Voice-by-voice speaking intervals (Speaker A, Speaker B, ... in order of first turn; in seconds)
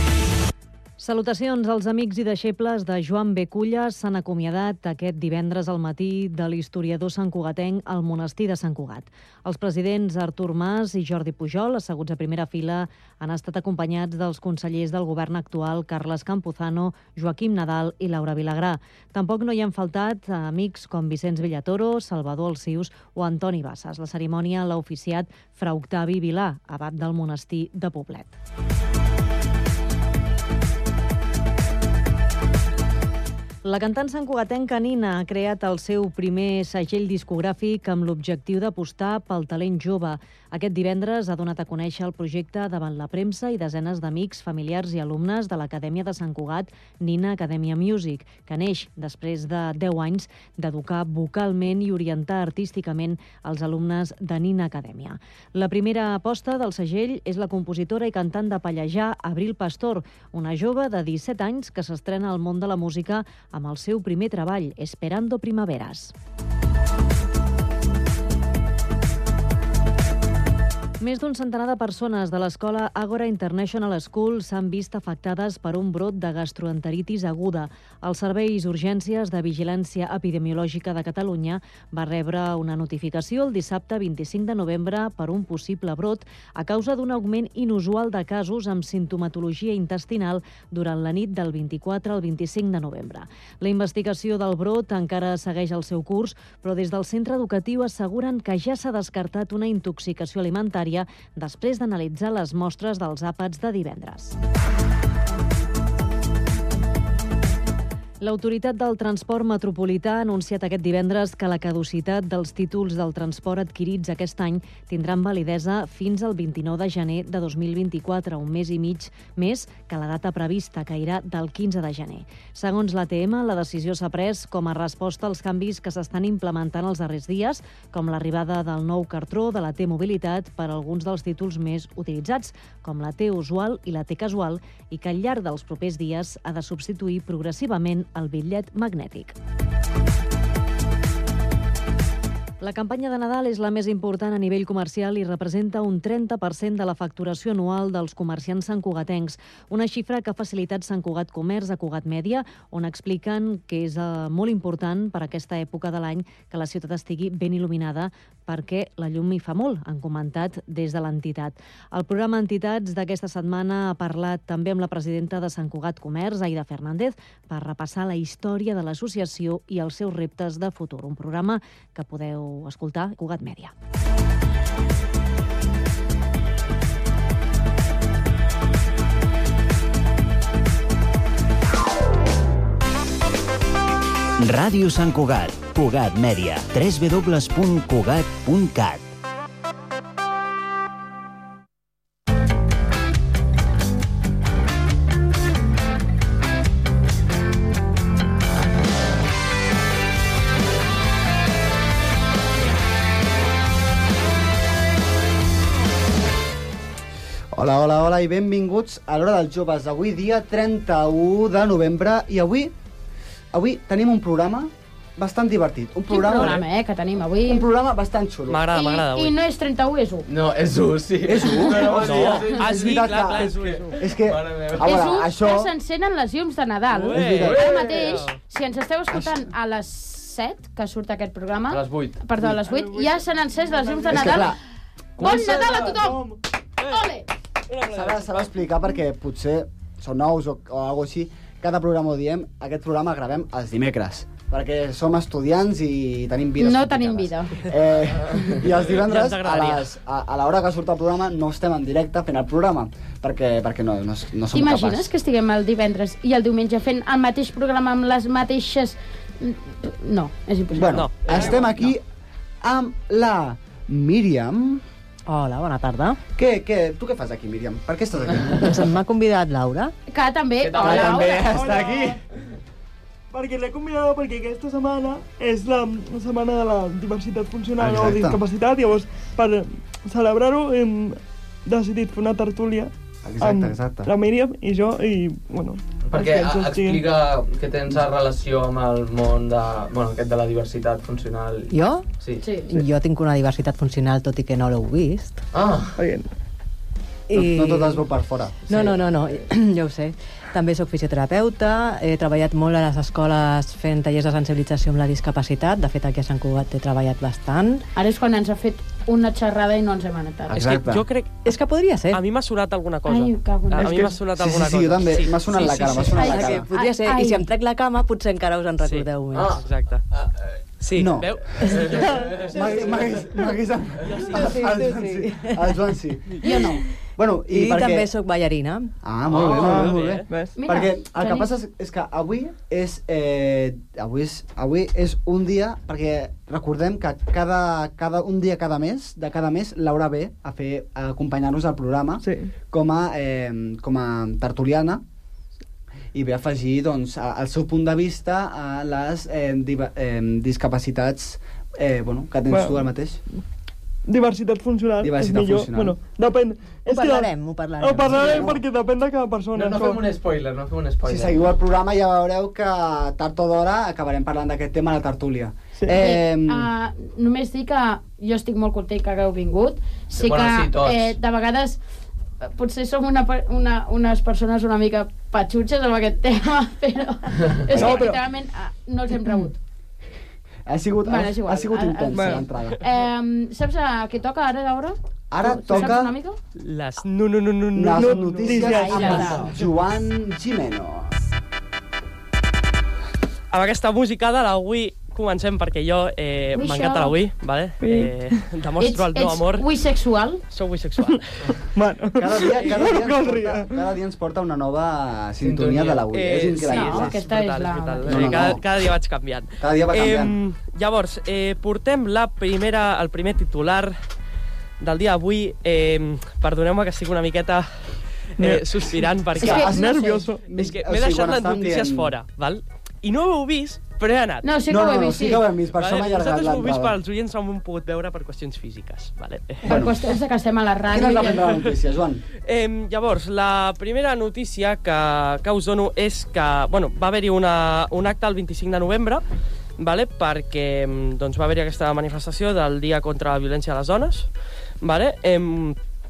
Speaker A: 1.0-28.3, 33.6-66.1, 71.0-104.3, 108.2-139.3, 142.6-173.7
Speaker B: 184.4-189.1
Speaker C: 207.5-212.7, 213.5-216.6, 217.4-218.7, 221.2-225.7, 227.1-227.7, 229.1-229.4, 234.1-234.6, 237.8-255.1, 260.7-262.0, 262.6-264.8, 266.4-268.7, 270.8-272.1, 277.8-278.4, 283.2-284.1, 297.4-299.0, 310.5-311.0, 313.8-316.7, 320.9-328.1, 329.0-345.0, 346.1-353.2, 355.0-356.0, 358.1-358.6, 361.0-366.7, 380.6-382.8, 385.3-386.1, 387.8-391.1, 402.2-407.1, 408.1-408.6, 409.6-410.4, 419.4-422.1, 424.7-426.9, 429.6-429.9, 430.9-432.2
Speaker D: 216.1-217.6, 218.7-220.3, 221.6-221.9, 224.8-234.5, 235.2-237.3, 246.6-247.6, 254.5-261.6, 270.1-271.6, 292.4-292.8, 307.9-310.7, 313.1-314.1, 315.6-317.5, 326.4-326.8, 330.6-331.5, 365.9-371.8, 372.4-379.6, 381.0-386.4, 388.6-389.5, 396.5-397.1, 398.8-400.4, 406.7-408.6, 419.4-420.2, 424.4-425.4, 429.6-431.6
Speaker E: 218.5-219.4, 222.0-224.1, 226.9-228.4, 236.8-237.1, 237.7-238.5, 248.9-249.9, 260.8-261.9, 310.6-311.5, 312.1-316.1, 318.8-320.0, 320.8-322.1, 329.4-330.3, 386.6-388.6, 393.5-399.6, 400.5-401.4, 402.4-403.0, 406.1-413.9, 414.8-417.7, 418.4-419.7, 420.5-424.5, 425.8-429.7, 432.4-439.2, 439.8-444.3, 444.8-445.8
Speaker F: 220.3-225.1, 227.3-228.2, 231.7-232.2, 235.2-236.0, 270.6-272.1, 286.0-292.4, 295.5-296.0, 319.3-320.6, 321.6-323.2, 329.3-329.6, 359.5-361.4, 370.1-371.2, 377.5-377.9, 405.4-406.1
Speaker G: 232.6-234.5, 235.5-236.4, 271.4-272.2, 273.3-287.1, 295.9-296.3, 329.5-330.6, 342.2-342.5, 352.5-352.8, 354.1-360.1, 377.7-378.2, 382.1-382.5, 387.7-389.4, 397.8-398.4, 401.7-403.8, 418.4-420.4
Speaker H: 265.3-266.2, 268.6-269.9, 291.7-292.1, 292.7-295.4, 297.3-298.0, 298.7-307.9, 311.4-312.2, 315.6-319.6, 324.3-325.7, 327.5-328.9, 356.9-358.5